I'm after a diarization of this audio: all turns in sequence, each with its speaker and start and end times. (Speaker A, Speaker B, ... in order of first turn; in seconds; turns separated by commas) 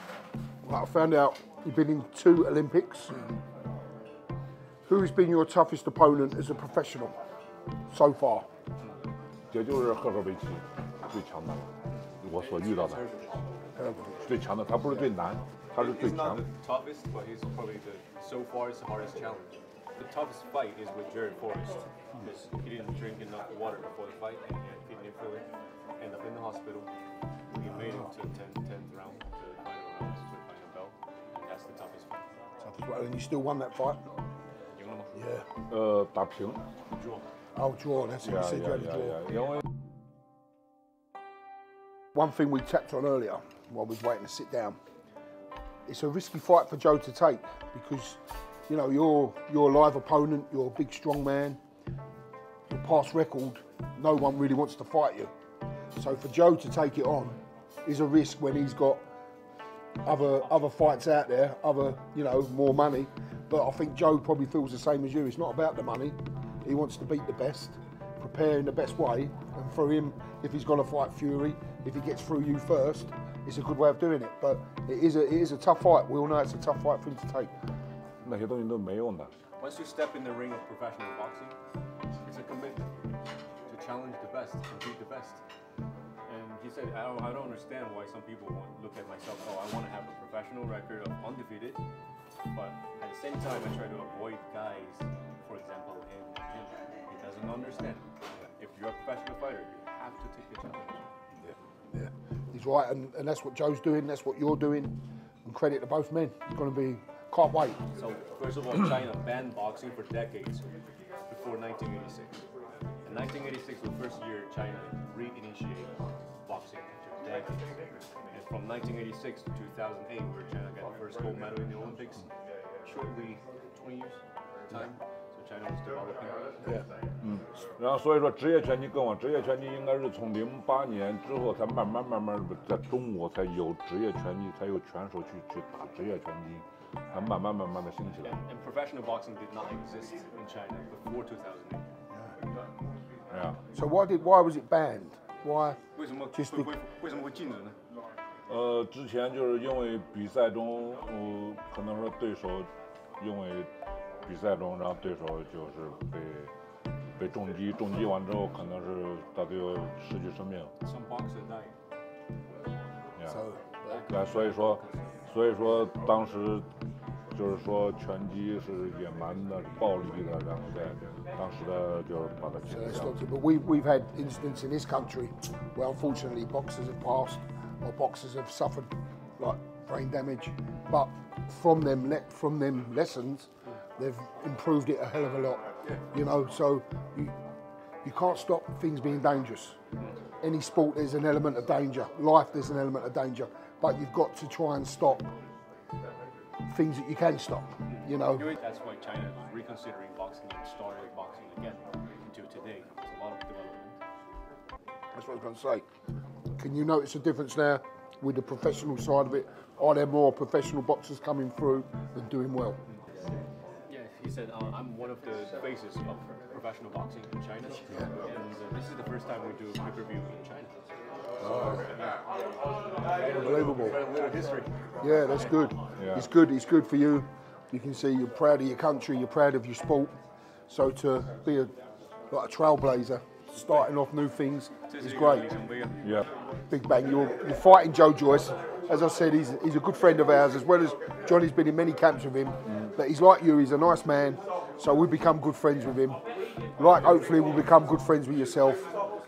Speaker A: 0.6-3.2, Speaker A: 4.8-7.1, Speaker A: 7.9-8.4, Speaker B: 9.5-11.7, Speaker B: 12.2-13.0, Speaker C: 12.3-13.4, Speaker A: 13.8-14.2, Speaker B: 14.2-16.4, Speaker C: 15.8-25.4, Speaker C: 26.0-26.9, Speaker C: 27.5-32.2, Speaker A: 32.6-34.0, Speaker C: 34.7-35.2, Speaker A: 35.1-35.4, Speaker B: 35.7-36.6, Speaker C: 37.0-37.2, Speaker A: 37.5-39.2, Speaker B: 38.2-39.6, Speaker A: 42.1-44.8, Speaker A: 45.9-51.6, Speaker A: 52.7-55.3, Speaker A: 56.0-59.0, Speaker A: 60.0-77.5, Speaker B: 78.2-79.3, Speaker C: 79.6-81.5, Speaker C: 82.2-83.0, Speaker C: 83.7-85.4, Speaker C: 86.3-91.8, Speaker C: 92.5-98.0, Speaker C: 98.6-101.1, Speaker A: 101.4-107.8, Speaker C: 107.9-110.6, Speaker C: 111.3-112.4, Speaker C: 113.0-115.9, Speaker C: 116.4-117.7, Speaker C: 118.3-122.3, Speaker C: 122.8-126.8, Speaker B: 127.2-138.3, Speaker C: 138.2-141.8, Speaker B: 143.3-143.6, Speaker A: 143.7-145.8, Speaker C: 145.9-147.8, Speaker A: 146.3-146.7, Speaker B: 148.5-153.7, Speaker B: 154.2-156.5, Speaker B: 157.2-160.7, Speaker C: 160.8-161.7, Speaker A: 163.2-163.9, Speaker C: 163.9-165.0, Speaker B: 164.1-166.7, Speaker B: 167.3-173.2, Speaker A: 172.7-185.6, Speaker A: 186.1-187.3, Speaker A: 188.0-189.8, Speaker A: 190.4-195.3, Speaker A: 196.7-198.5, Speaker C: 197.9-203.9, Speaker A: 205.1-205.8, Speaker A: 206.6-212.8, Speaker C: 213.9-220.7, Speaker C: 221.4-222.2, Speaker A: 221.4-221.8, Speaker C: 223.2-224.7, Speaker A: 223.3-224.0, Speaker A: 225.0-230.1, Speaker A: 230.7-231.7, Speaker A: 232.3-235.5, Speaker C: 234.9-236.0, Speaker A: 236.7-246.2, Speaker A: 246.8-248.8